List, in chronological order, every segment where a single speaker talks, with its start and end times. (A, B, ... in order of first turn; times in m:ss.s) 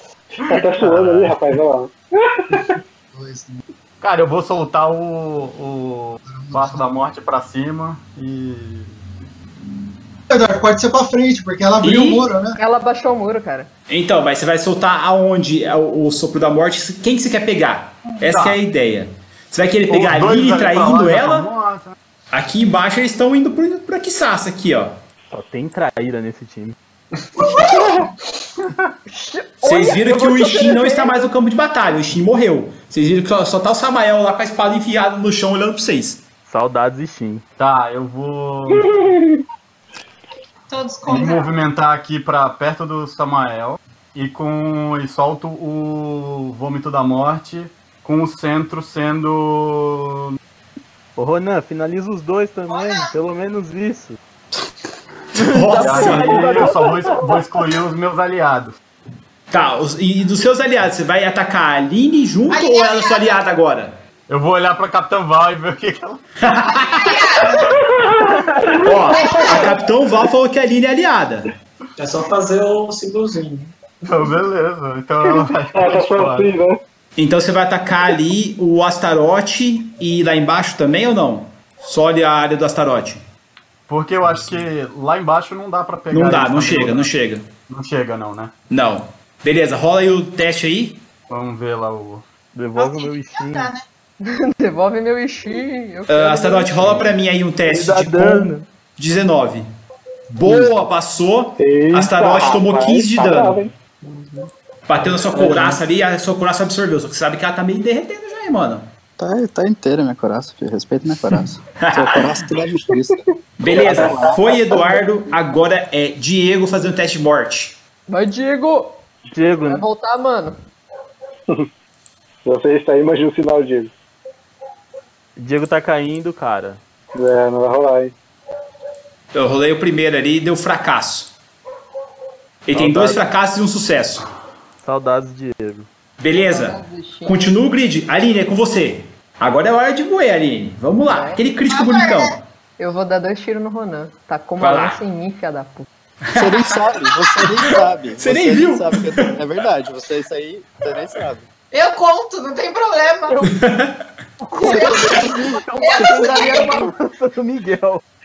0:00.5-0:02.8 A
0:00.6-0:01.4 B
0:03.1-0:03.6 C
0:04.0-0:09.0 B
0:06.2-0:06.8 C
0:10.3-0:12.6 C
0:11.8-0:12.3 D
0:12.6-0:13.7 E
0:13.9-0:21.5 D
0:18.2-0:18.6 B
0:19.9-0:21.9 B
0:22.3-0:24.9 D
0:25.3-0:26.8 F
0:29.1-0:31.2 E
0:29.6-0:36.2 D
0:36.4-0:37.4 F
0:37.6-0:39.0 B
0:39.1-0:39.4 A
0:40.7-0:41.5 G
0:41.0-0:50.3 B
0:51.2-0:54.2 F
0:52.7-0:53.1 G
0:55.3-0:57.4 F
0:55.3-0:56.6 D
0:55.8-0:58.8 B
0:59.5-1:04.0 D
1:02.5-1:03.4 G
1:04.3-1:06.2 B
1:06.4-1:07.1 D
1:06.7-1:07.7 G
1:08.0-1:08.8 A
1:08.8-1:11.5 D
1:09.2-1:09.7 G
1:12.0-1:13.7 H
1:14.0-1:16.5 B
1:15.2-1:16.8 A
1:17.2-1:23.2 D
1:23.9-1:27.1 B
1:24.2-1:24.6 D
1:26.1-1:27.5 D
1:27.7-1:28.5 B
1:28.7-1:31.0 D
1:31.3-1:32.2 B
1:32.5-1:33.7 F
1:32.8-1:33.8 G
1:34.2-1:37.1 E
1:36.1-1:39.7 D
1:37.6-1:38.7 F
1:40.3-1:43.6 D
1:40.4-1:40.7 A
1:41.6-1:43.7 A
1:44.0-1:44.4 H
1:44.9-1:48.9 D
1:49.2-1:54.5 I
1:51.8-1:52.5 D
1:53.6-1:57.8 D
1:53.7-1:55.0 A
1:58.1-1:59.0 E
1:59.3-1:59.8 F
1:59.6-2:00.6 E
2:02.4-2:03.9 A
2:05.4-2:06.8 F
2:07.1-2:08.1 A
2:09.3-2:11.3 D
2:12.6-2:14.3 D
2:12.7-2:13.2 F
2:14.8-2:15.9 F
2:16.2-2:22.4 D
2:16.4-2:17.6 E
2:21.1-2:21.4 E
2:21.7-2:22.3 G
2:22.8-2:25.9 E
2:24.6-2:25.0 D
2:26.2-2:26.8 D
2:26.3-2:31.5 I
2:27.4-2:29.4 D
2:31.7-2:33.4 G
2:33.3-2:33.5 F
2:33.5-2:34.1 D
2:34.4-2:38.0 F
2:34.6-2:36.9 G